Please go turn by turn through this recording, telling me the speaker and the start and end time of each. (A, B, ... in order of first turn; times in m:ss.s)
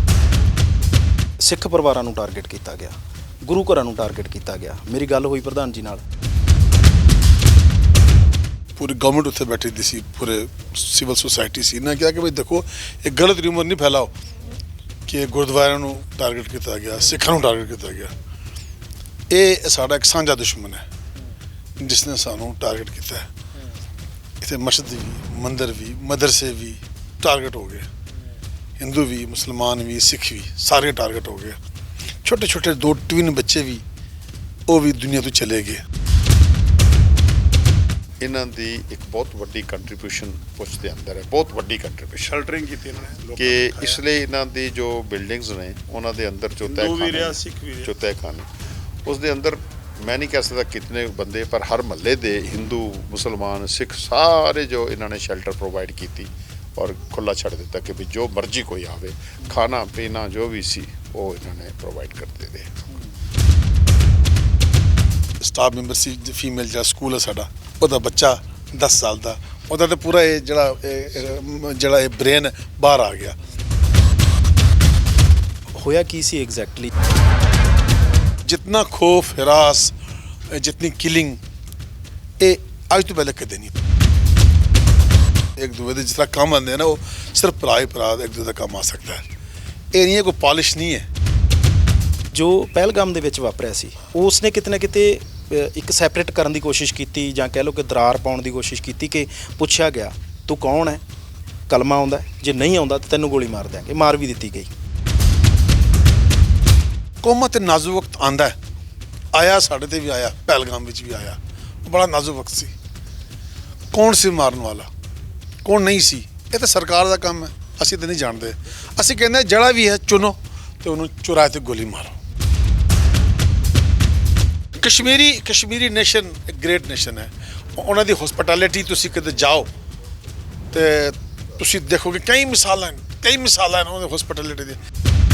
0:01.4-0:06.0 A
0:08.8-0:14.1 B
0:15.1-0:18.1 B
0:19.3-0:20.8 B
0:21.8-0:23.3 B
0:24.4-0:27.9 B
0:28.8-0:31.6 B
0:32.2-0:33.8 B
0:34.7-0:35.8 B
0:38.2-0:42.4 C
0:42.2-0:44.0 D
0:43.4-0:48.5 C
0:46.6-0:48.0 D
0:49.0-1:02.7 C
1:05.4-1:13.4 B
1:15.7-1:16.9 A
1:18.4-1:20.0 B
1:20.5-1:21.4 B
1:22.4-1:23.7 B
1:25.6-1:29.2 B
1:29.9-1:31.1 B
1:32.3-1:41.0 A
1:41.7-1:44.7 A
1:47.2-1:48.6 B
1:49.3-1:52.7 B
1:53.9-1:54.9 B
1:55.6-2:02.2 B
2:04.8-2:09.7 B
2:10.7-2:14.8 B